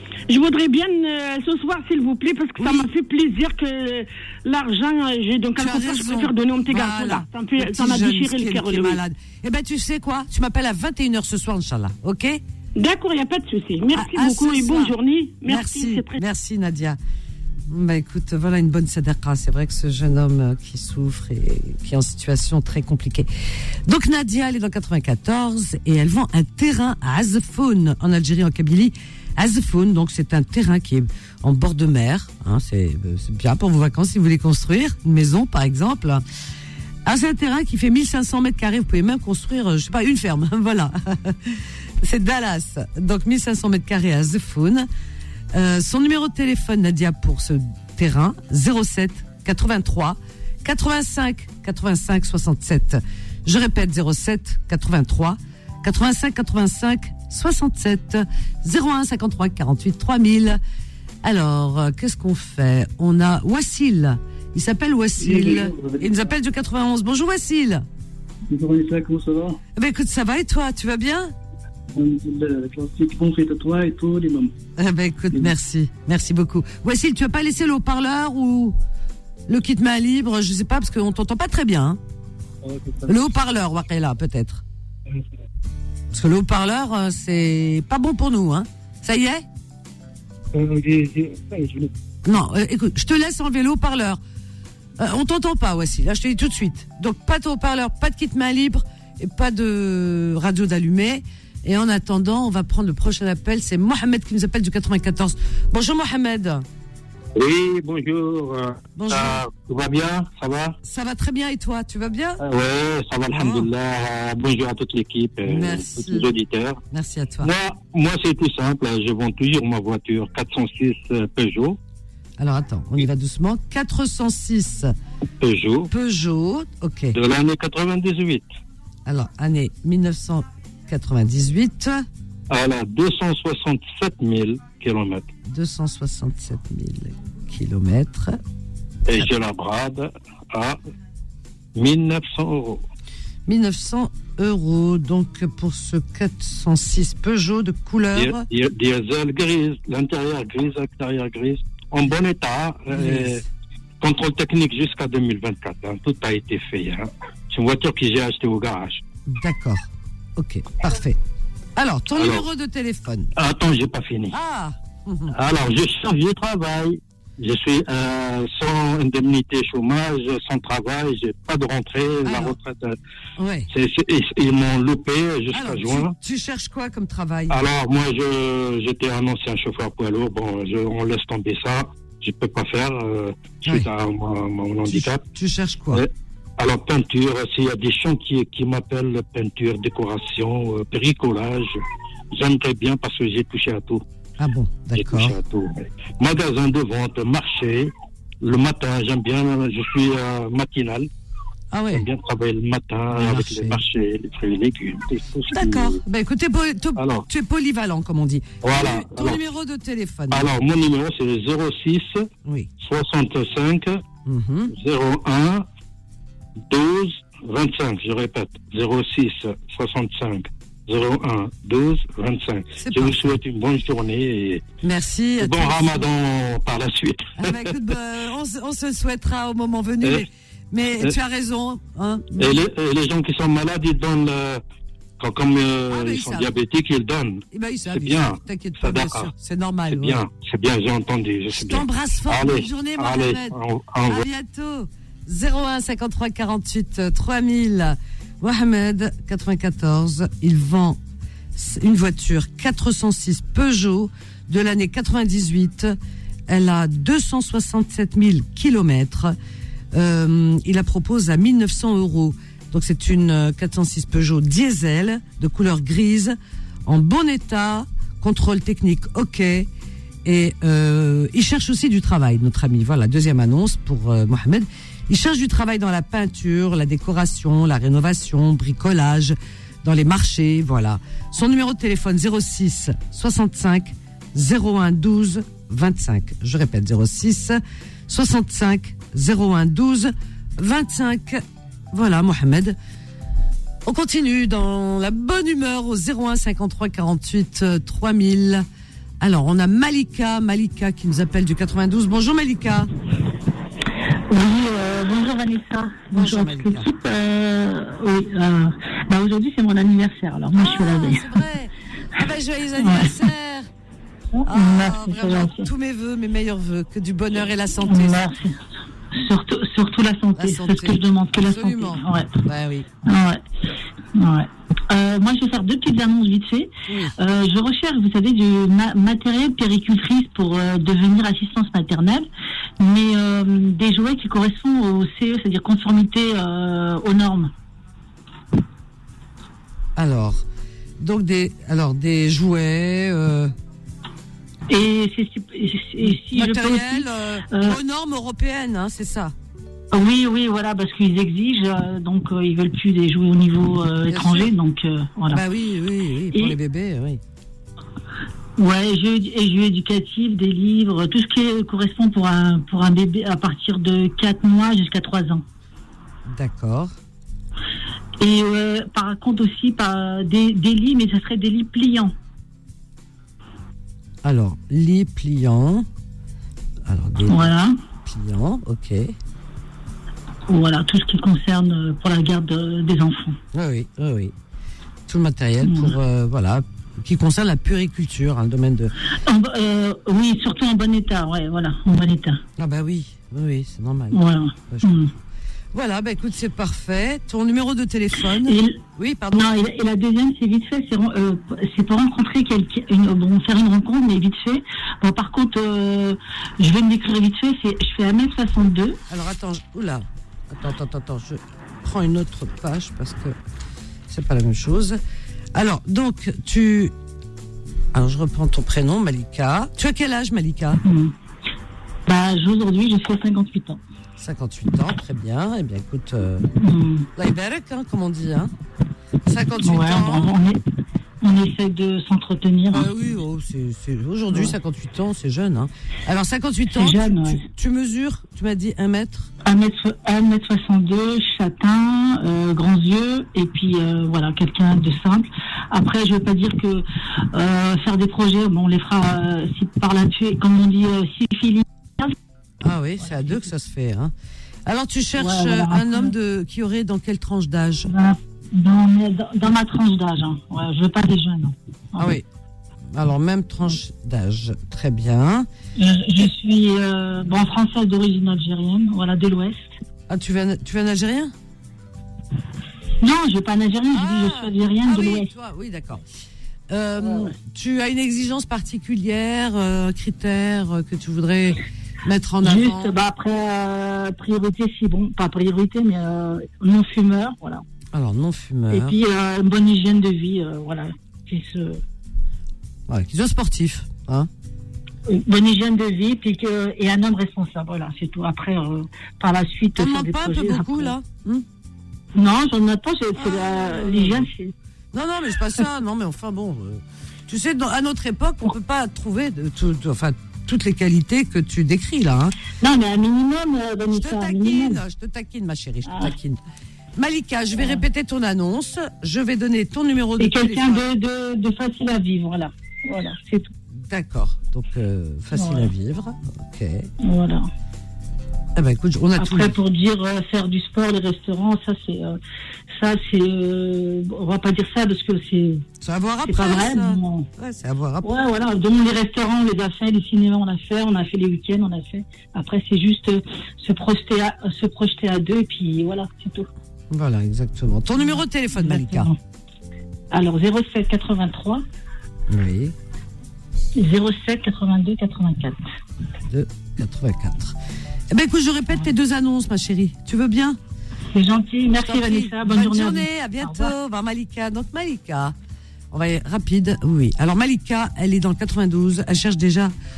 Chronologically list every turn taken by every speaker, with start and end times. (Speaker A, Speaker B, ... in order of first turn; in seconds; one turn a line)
Speaker A: 0.3-9.0
Speaker B: 2.6-2.9
Speaker B: 5.6-12.4
Speaker A: 12.8-16.2
Speaker B: 13.9-17.0
Speaker B: 17.7-23.3
Speaker B: 23.9-36.2
Speaker B: 37.0-44.9
Speaker B: 45.5-60.6
Speaker B: 61.2-67.8
Speaker C: 65.2-66.3
Speaker C: 68.5-69.6
Speaker B: 69.8-71.3
Speaker C: 71.9-74.5
Speaker B: 74.8-78.8
Speaker B: 79.5-82.0
Speaker C: 82.6-83.2
Speaker B: 83.0-84.6
Speaker B: 86.1-89.5
Speaker C: 90.5-91.9
Speaker B: 92.2-94.2
Speaker B: 95.0-106.7
Speaker D: 107.3-110.8
Speaker B: 108.9-109.4
Speaker B: 110.8-112.4
Speaker D: 112.4-116.8
Speaker B: 113.3-113.7
Speaker B: 115.4-116.3
Speaker B: 116.9-117.5
Speaker D: 117.4-121.8
Speaker B: 122.4-124.9
Speaker D: 125.4-125.9
Speaker B: 125.9-127.2
Speaker D: 127.1-128.5
Speaker B: 129.1-132.0
Speaker D: 132.5-135.3
Speaker B: 135.4-138.4
Speaker D: 139.1-140.8
Speaker D: 141.7-142.8
Speaker B: 143.4-148.4
Speaker D: 148.1-153.4
Speaker B: 152.9-153.4
Speaker D: 154.0-159.0
Speaker B: 159.3-161.2
Speaker B: 161.8-163.3
Speaker D: 162.1-162.4
Speaker D: 163.3-164.3
Speaker B: 164.3-165.3
Speaker D: 165.3-172.9
Speaker B: 172.2-172.6
Speaker B: 173.4-173.7
Speaker D: 173.7-176.1
Speaker B: 175.5-177.6
Speaker D: 177.5-185.2
Speaker B: 184.9-186.0
Speaker D: 185.9-191.8
Speaker D: 192.3-194.0
Speaker B: 194.4-195.3
Speaker D: 194.9-201.1
Speaker B: 201.7-202.1
Speaker D: 201.9-206.0
Speaker B: 203.1-203.8
Speaker B: 205.5-210.5
Speaker D: 206.9-207.2
Speaker D: 208.6-209.4
Speaker D: 210.3-212.3
Speaker B: 212.4-212.7
Speaker D: 212.8-214.0
Speaker B: 214.2-214.7
Speaker D: 214.7-215.7
Speaker D: 216.7-224.6
Speaker B: 222.8-223.4
Speaker B: 224.8-226.1
Speaker D: 225.4-227.7
Speaker B: 227.4-232.6
Speaker D: 232.4-234.6
Speaker D: 235.2-239.3
Speaker B: 235.9-236.5
Speaker B: 237.5-240.2
Speaker D: 239.9-244.2
Speaker B: 241.5-251.0
Speaker B: 251.5-256.0
Speaker B: 256.5-259.3
Speaker B: 259.9-269.7
Speaker B: 270.2-292.8
Speaker B: 293.8-298.6
Speaker B: 299.2-302.9
Speaker E: 304.3-311.3
Speaker B: 306.1-306.9
Speaker B: 310.5-313.7
Speaker E: 312.8-313.1
Speaker E: 314.3-315.7
Speaker B: 314.4-318.2
Speaker E: 317.9-318.6
Speaker E: 319.1-322.3
Speaker B: 320.4-322.9
Speaker E: 323.0-323.4
Speaker E: 324.1-332.3
Speaker B: 326.9-327.1
Speaker E: 332.8-337.5
Speaker B: 339.9-340.4
Speaker B: 341.0-343.5
Speaker E: 344.7-347.8
Speaker B: 346.0-349.3
Speaker E: 349.9-355.4
Speaker B: 354.1-354.5
Speaker B: 355.3-357.2
Speaker E: 358.6-365.4
Speaker B: 366.3-366.9
Speaker E: 368.2-372.1
Speaker B: 374.2-375.9
Speaker B: 376.9-379.1
Speaker E: 377.3-377.8
Speaker E: 380.5-383.4
Speaker B: 383.5-384.3
Speaker B: 385.1-388.9
Speaker E: 385.6-385.9
Speaker E: 389.2-392.4
Speaker B: 392.6-395.0
Speaker E: 394.1-395.1
Speaker B: 395.7-399.5
Speaker E: 398.4-398.8
Speaker E: 399.3-409.0
Speaker B: 409.1-413.4
Speaker B: 414.1-415.0
Speaker B: 415.5-416.9
Speaker B: 417.9-420.8
Speaker E: 420.8-421.1
Speaker E: 422.1-423.8
Speaker B: 424.2-426.5
Speaker E: 426.6-427.1
Speaker B: 427.1-428.5
Speaker B: 429.2-430.3
Speaker E: 429.6-430.6
Speaker E: 431.2-432.9
Speaker B: 432.7-439.3
Speaker E: 436.7-437.4
Speaker E: 439.4-452.1
Speaker B: 452.6-454.1
Speaker B: 454.6-457.9
Speaker E: 455.2-456.1
Speaker E: 457.9-462.1
Speaker B: 461.9-462.2
Speaker B: 462.9-465.5
Speaker E: 465.8-469.7
Speaker B: 470.1-471.3
Speaker E: 473.0-475.3
Speaker B: 473.9-476.0
Speaker B: 476.7-482.9
Speaker E: 482.4-487.6
Speaker B: 487.9-489.0
Speaker E: 488.7-491.8
Speaker B: 492.9-494.3
Speaker E: 495.1-500.9
Speaker B: 499.7-501.4
Speaker E: 502.1-504.5
Speaker B: 503.2-504.3
Speaker B: 504.9-512.3
Speaker E: 512.6-514.8
Speaker B: 513.9-516.4
Speaker E: 515.9-516.1
Speaker B: 517.0-520.8
Speaker E: 520.2-523.5
Speaker B: 523.7-526.9
Speaker E: 525.3-525.7
Speaker E: 527.0-527.5
Speaker B: 528.5-529.5
Speaker E: 529.2-532.2
Speaker E: 532.7-535.6
Speaker B: 535.8-538.1
Speaker E: 536.2-537.3
Speaker E: 538.0-546.5
Speaker B: 546.9-549.1
Speaker E: 548.0-549.2
Speaker E: 550.1-551.6
Speaker B: 552.3-552.7
Speaker E: 553.8-555.6
Speaker B: 556.3-557.5
Speaker B: 558.1-560.6
Speaker E: 561.1-563.7
Speaker B: 561.7-565.3
Speaker B: 565.9-569.7